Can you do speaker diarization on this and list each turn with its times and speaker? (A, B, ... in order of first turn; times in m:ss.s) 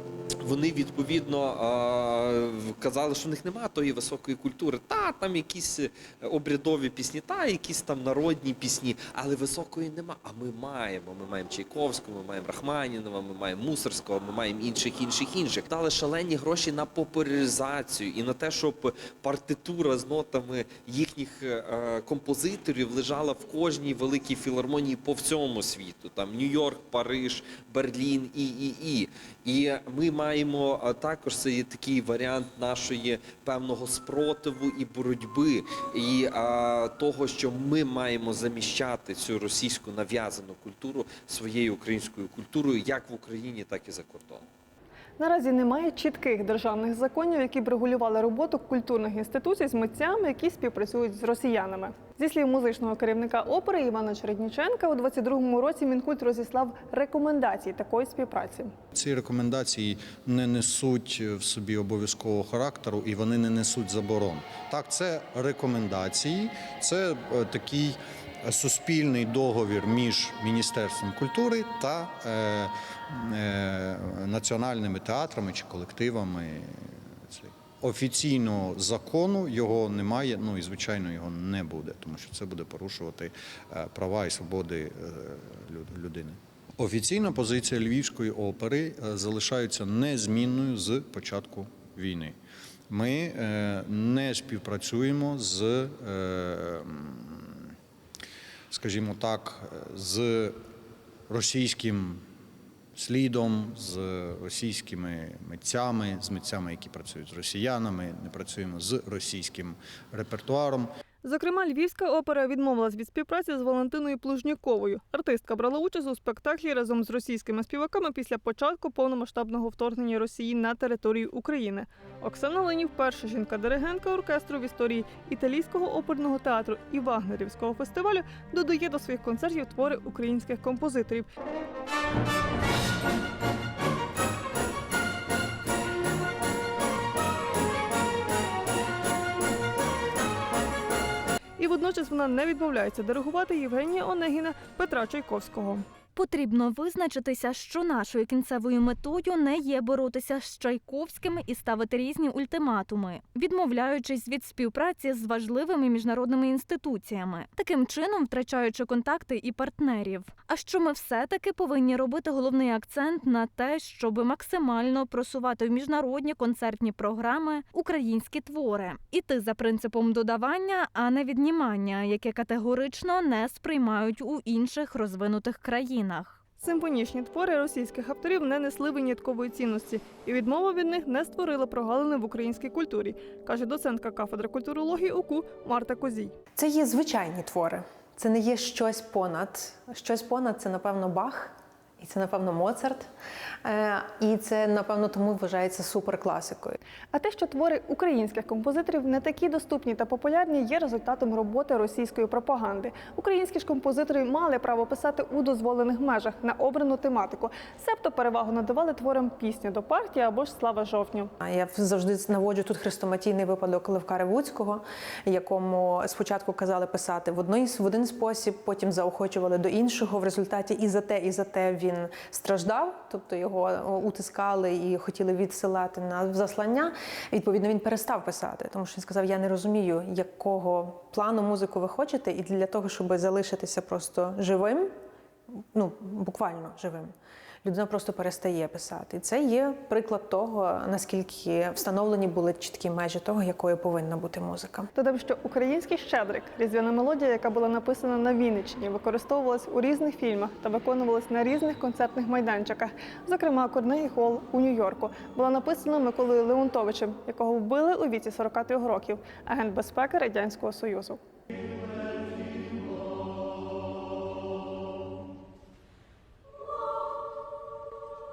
0:00.4-0:44.4 A
0:45.2-0:58.7 B
0:58.9-1:32.4 C
1:32.9-1:37.7 C
1:38.7-1:40.6 C
1:41.3-1:42.2 C
1:43.0-1:50.9 C
1:51.2-2:11.3 B
2:21.6-2:25.8 B
2:26.2-2:56.4 D
2:56.6-3:06.3 B
3:06.6-3:13.1 E
3:13.6-3:16.8 E
3:17.1-3:31.3 B
3:31.4-3:54.9 E
3:55.7-3:57.1 E
3:57.6-4:04.9 E
4:05.0-4:21.2 B